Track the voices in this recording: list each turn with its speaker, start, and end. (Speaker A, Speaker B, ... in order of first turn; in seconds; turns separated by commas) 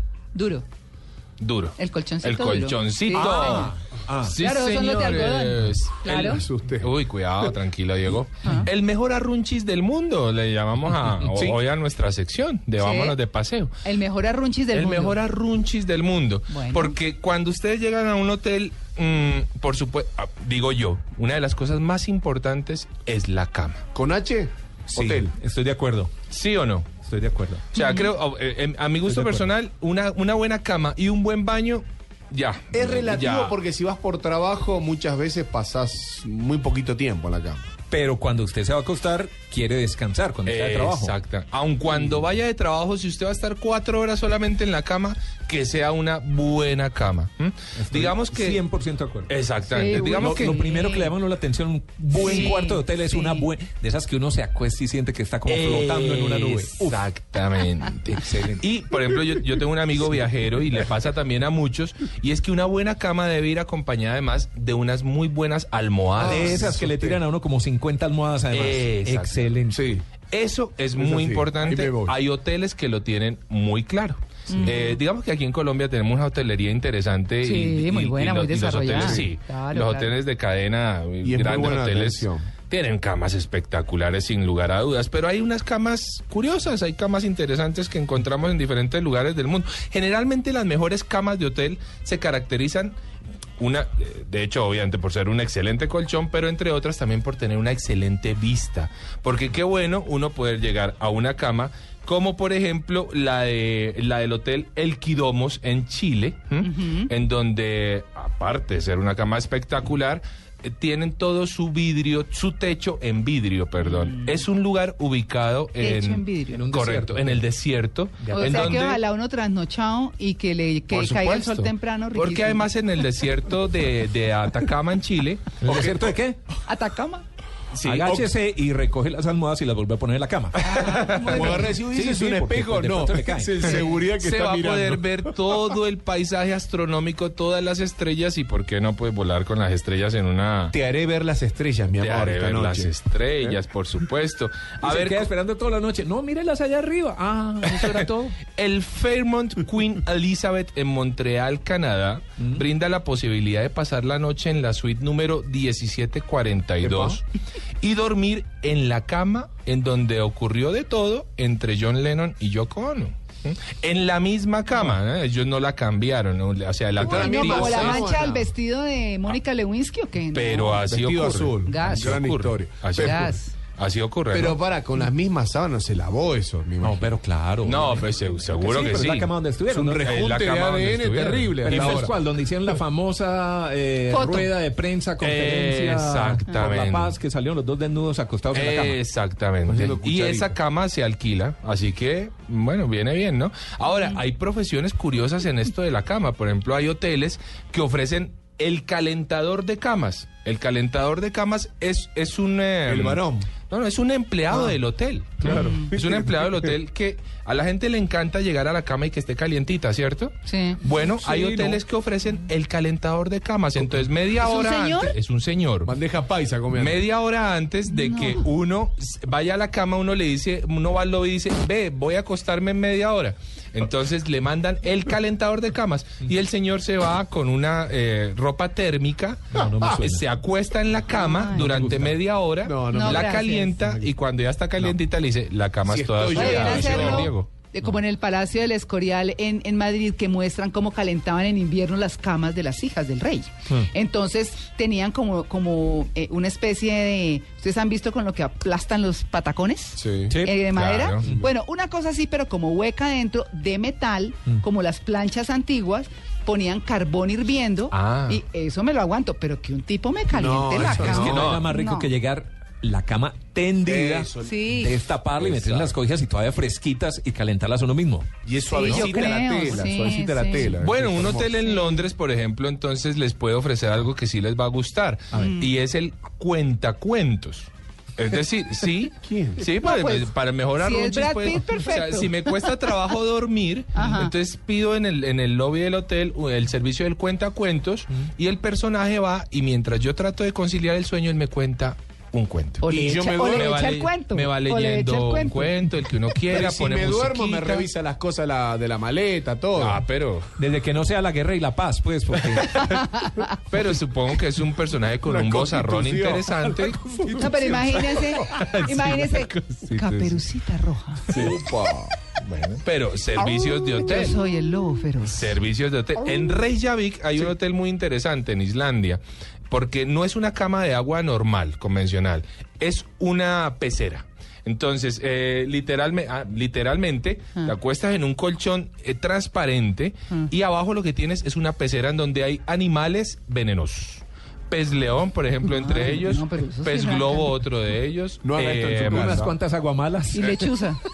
Speaker A: 0.3-0.7, Speaker B: 1.4-13.7, Speaker A: 1.8-3.7, Speaker C: 3.1-4.4, Speaker A: 4.3-6.4, Speaker D: 6.2-6.9, Speaker C: 11.2-11.5, Speaker A: 12.8-13.2, Speaker A: 13.8-15.2, Speaker B: 14.7-23.8, Speaker A: 16.5-16.9, Speaker D: 23.9-25.3, Speaker C: 24.9-26.1, Speaker B: 26.3-26.9, Speaker C: 27.1-27.6, Speaker B: 27.7-33.6, Speaker A: 27.8-28.1, Speaker C: 29.1-29.5, Speaker D: 32.7-37.7, Speaker C: 37.9-41.1, Speaker B: 40.5-48.6, Speaker C: 47.8-49.3, Speaker B: 49.3-50.6, Speaker A: 49.7-51.1, Speaker C: 50.0-57.0, Speaker B: 52.1-52.7, Speaker A: 52.2-53.5, Speaker B: 55.5-66.7, Speaker C: 58.2-58.6, Speaker D: 66.2-67.2, Speaker C: 66.2-69.9, Speaker B: 68.5-69.5, Speaker D: 69.7-70.0, Speaker B: 70.3-93.0, Speaker D: 71.0-72.2, Speaker A: 74.5-75.0, Speaker A: 77.4-80.2, Speaker D: 78.9-79.3, Speaker D: 81.2-82.5, Speaker B: 93.6-119.0, Speaker A: 106.6-107.1, Speaker A: 113.8-114.4, Speaker A: 115.8-116.7, Speaker C: 116.5-117.5, Speaker C: 118.2-118.8, Speaker A: 118.3-122.7, Speaker B: 120.9-125.8, Speaker C: 125.6-126.4, Speaker A: 126.7-127.3, Speaker B: 127.7-128.2, Speaker C: 127.8-130.7, Speaker B: 130.6-131.5, Speaker A: 130.7-131.7, Speaker D: 131.2-135.6, Speaker C: 131.6-133.8, Speaker B: 133.7-140.8, Speaker D: 140.7-143.6, Speaker B: 142.0-145.3, Speaker C: 144.8-148.4, Speaker B: 147.7-157.2, Speaker D: 156.8-157.2, Speaker B: 157.8-168.2, Speaker D: 167.0-168.5, Speaker A: 167.0-170.8, Speaker B: 170.3-174.6, Speaker D: 170.8-173.3, Speaker A: 171.7-172.1, Speaker A: 173.0-173.6, Speaker D: 174.3-177.1, Speaker C: 176.8-180.1, Speaker B: 177.6-179.3, Speaker D: 179.7-182.1, Speaker B: 179.9-182.0, Speaker C: 181.6-189.0, Speaker A: 184.1-184.5, Speaker B: 185.2-187.2, Speaker B: 188.5-215.9, Speaker D: 189.7-190.6, Speaker D: 202.9-203.5, Speaker D: 205.4-206.7, Speaker A: 205.5-205.9, Speaker A: 210.5-210.8, Speaker C: 211.0-211.8, Speaker A: 214.4-215.2, Speaker D: 215.8-217.0, Speaker B: 216.7-237.5, Speaker A: 217.9-218.4, Speaker C: 229.5-230.2, Speaker A: 231.1-231.8, Speaker C: 231.5-232.2, Speaker D: 232.6-234.1, Speaker A: 232.9-233.8, Speaker D: 235.8-237.3, Speaker A: 236.3-262.1, Speaker D: 250.0-250.4, Speaker C: 250.3-250.6, Speaker B: 250.5-251.2, Speaker B: 257.9-258.4, Speaker D: 260.3-261.5, Speaker C: 260.8-268.3, Speaker B: 261.1-261.7, Speaker D: 263.8-264.9, Speaker A: 264.4-265.0, Speaker B: 265.4-265.9, Speaker D: 268.4-271.6, Speaker A: 268.7-270.8, Speaker B: 268.8-269.2, Speaker B: 270.6-292.9, Speaker A: 271.5-272.0, Speaker A: 275.3-275.7, Speaker D: 279.2-279.7, Speaker A: 279.6-282.9, Speaker A: 283.9-284.3, Speaker A: 292.8-295.9, Speaker D: 292.9-293.8, Speaker B: 293.5-297.9, Speaker D: 296.5-300.0, Speaker B: 299.8-300.5, Speaker C: 300.6-303.1, Speaker A: 302.8-303.5, Speaker B: 303.5-307.1, Speaker D: 305.2-308.8, Speaker A: 307.3-311.4, Speaker C: 308.6-310.4, Speaker D: 311.3-312.5, Speaker B: 311.3-311.7, Speaker B: 312.5-314.4, Speaker A: 314.0-315.6, Speaker B: 315.2-339.5, Speaker A: 335.7-337.6, Speaker D: 338.4-339.5, Speaker C: 338.6-340.7, Speaker A: 340.3-341.0